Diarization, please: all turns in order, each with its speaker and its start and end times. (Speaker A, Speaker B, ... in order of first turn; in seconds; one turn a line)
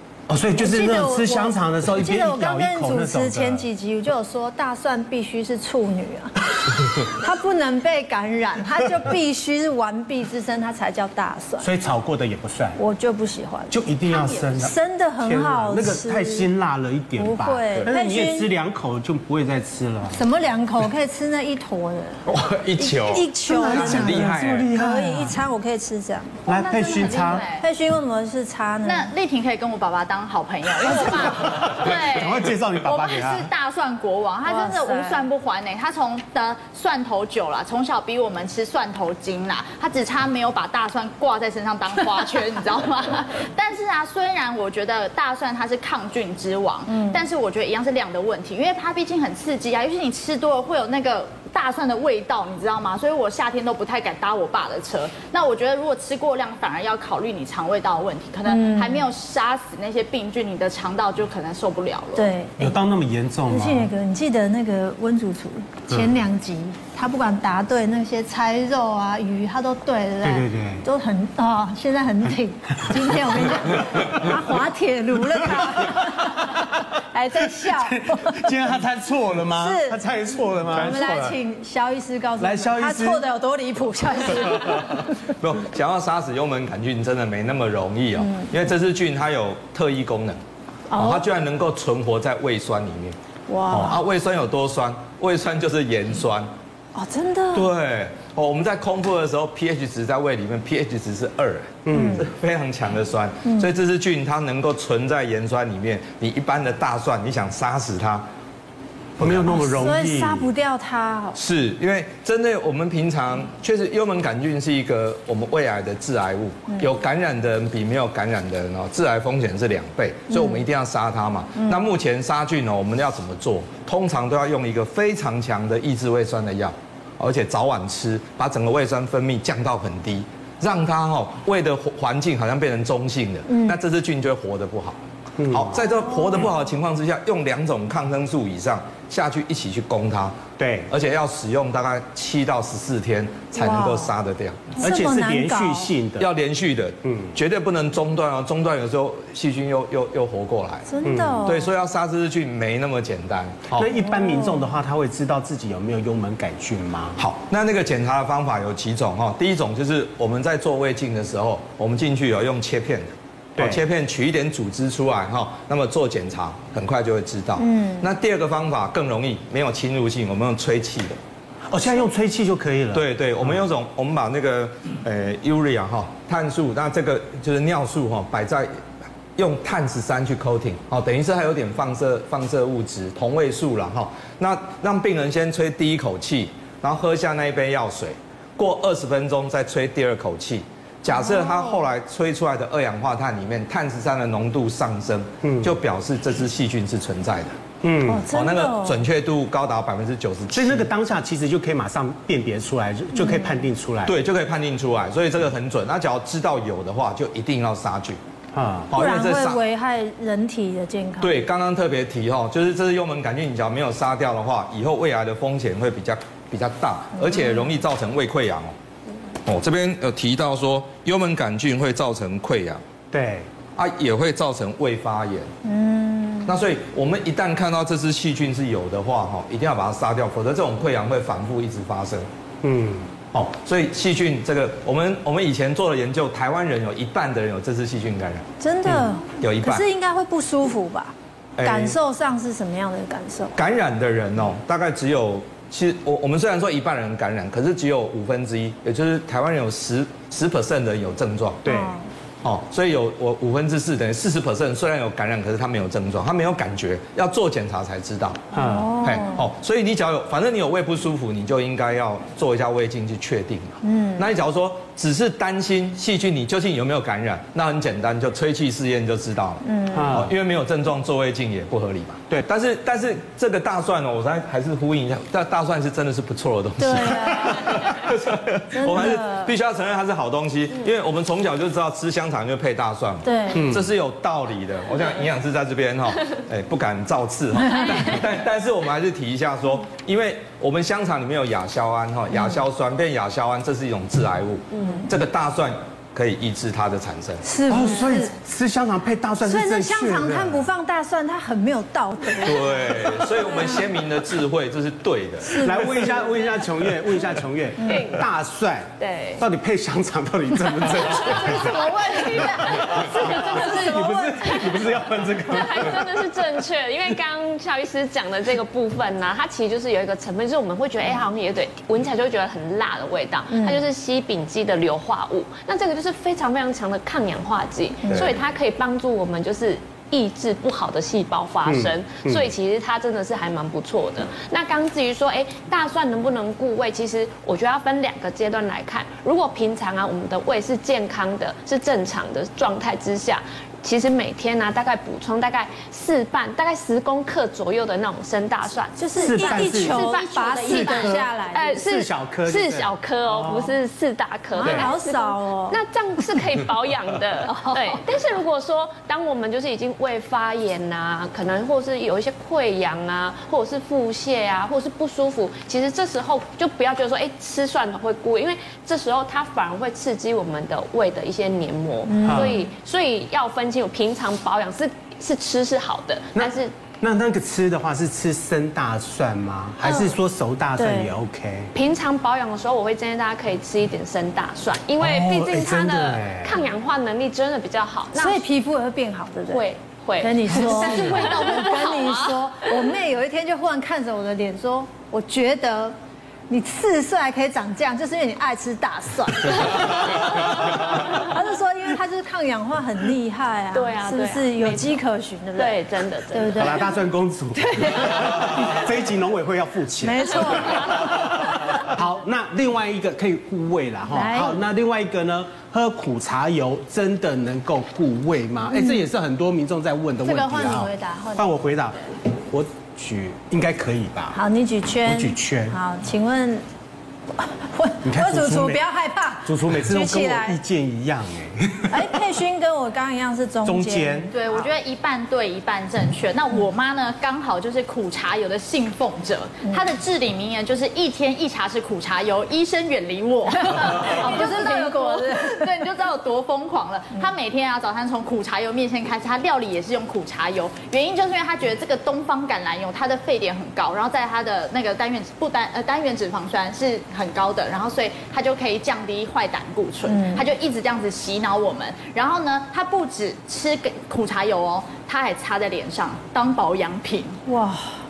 Speaker A: 0.3-3.7
Speaker B: 0.6-11.7
Speaker A: 11.6-12.8
Speaker B: 12.8-16.5
Speaker A: 13.7-20.2
Speaker B: 17.2-18.5
Speaker B: 20.1-22.2
Speaker C: 22.2-24.7
Speaker B: 22.8-26.4
Speaker A: 23.4-25.4
Speaker A: 26.5-27.5
Speaker D: 26.5-27.6
Speaker B: 27.0-29.1
Speaker D: 28.8-62.3
Speaker B: 30.8-31.3
Speaker A: 30.9-33.5
Speaker B: 34.4-35.3
Speaker B: 58.5-59.0
Speaker B: 62.1-62.8
Speaker A: 62.6-63.9
Speaker B: 63.5-78.7
Speaker A: 70.2-70.8
Speaker A: 77.7-81.4
Speaker B: 79.5-80.0
Speaker B: 80.7-85.1
Speaker A: 82.4-83.2
Speaker E: 85.4-90.4
Speaker B: 90.9-91.2
Speaker E: 91.0-93.2
Speaker B: 93.5-94.0
Speaker E: 93.7-96.5
Speaker B: 96.9-97.7
Speaker E: 97.5-108.3
Speaker A: 101.8-102.2
Speaker B: 101.9-102.3
Speaker A: 109.2-110.5
Speaker E: 109.2-109.5
Speaker B: 109.5-111.4
Speaker E: 111.3-140.4
Speaker B: 120.3-120.6
Speaker B: 133.5-133.8
Speaker A: 135.4-135.7
Speaker A: 140.6-140.9
Speaker E: 140.9-144.8
Speaker B: 143.6-144.1
Speaker B: 144.8-145.9
Speaker A: 144.8-146.3
Speaker E: 146.2-153.9
Speaker A: 147.1-147.3
Speaker B: 150.9-151.7
Speaker A: 151.0-151.4
Speaker A: 153.8-157.2
Speaker B: 154.0-154.7
Speaker E: 157.2-171.2
Speaker B: 167.6-168.1
Speaker A: 171.7-173.5
Speaker E: 172.9-178.7
Speaker E: 179.4-197.5
Speaker B: 191.1-191.8
Speaker A: 195.4-195.7
Speaker A: 197.8-198.3
Speaker B: 198.0-199.0
Speaker E: 198.3-200.9
Speaker A: 200.5-204.1
Speaker B: 203.2-203.6
Speaker E: 204.1-208.2
Speaker A: 208.5-208.9
Speaker E: 208.9-209.6
Speaker B: 208.9-211.4
Speaker E: 211.2-218.7
Speaker E: 219.4-222.8
Speaker A: 223.1-223.5
Speaker E: 223.8-225.5
Speaker B: 225.6-226.6
Speaker E: 226.4-232.3
Speaker A: 232.6-233.1
Speaker E: 233.3-239.9
Speaker B: 238.6-243.6
Speaker E: 241.6-241.9
Speaker E: 243.5-251.6
Speaker A: 251.6-251.9
Speaker B: 251.7-252.0
Speaker E: 252.4-297.4
Speaker B: 258.5-259.5
Speaker A: 258.5-258.9
Speaker B: 263.8-264.2
Speaker B: 269.6-270.2
Speaker A: 269.9-270.3
Speaker B: 276.8-277.9
Speaker B: 278.7-279.5
Speaker B: 283.2-283.7
Speaker A: 283.6-283.8
Speaker B: 297.4-298.3
Speaker A: 297.7-300.7
Speaker B: 299.4-303.9
Speaker E: 302.4-305.9
Speaker B: 305.4-306.5
Speaker A: 305.6-316.1
Speaker F: 307.8-308.2
Speaker F: 309.0-309.4
Speaker B: 311.1-314.6
Speaker F: 313.2-313.8
Speaker F: 314.4-314.9
Speaker F: 315.4-376.7
Speaker B: 323.5-323.8
Speaker A: 331.6-332.5
Speaker B: 348.9-351.8
Speaker A: 349.1-353.7
Speaker D: 350.0-350.6
Speaker B: 354.5-355.8
Speaker A: 354.6-354.9
Speaker B: 357.5-357.8
Speaker B: 372.1-372.6
Speaker A: 372.2-372.6
Speaker A: 376.3-381.7
Speaker F: 379.8-380.1
Speaker B: 380.8-381.1
Speaker F: 381.7-388.4
Speaker A: 385.0-386.6
Speaker B: 388.1-389.6
Speaker F: 389.5-392.4
Speaker B: 390.2-395.9
Speaker B: 396.5-407.0
Speaker F: 403.7-405.0
Speaker F: 405.6-406.7
Speaker A: 406.5-424.4
Speaker B: 407.6-408.3
Speaker B: 410.0-411.8
Speaker B: 414.1-414.6
Speaker B: 418.7-419.0
Speaker B: 420.2-421.5
Speaker B: 424.3-426.6
Speaker A: 425.0-425.8
Speaker B: 427.4-430.6
Speaker A: 428.0-428.8
Speaker A: 429.4-432.0
Speaker B: 431.9-434.3
Speaker A: 433.6-434.3
Speaker D: 434.3-467.4
Speaker B: 443.7-445.8
Speaker B: 460.0-460.5
Speaker B: 467.4-467.9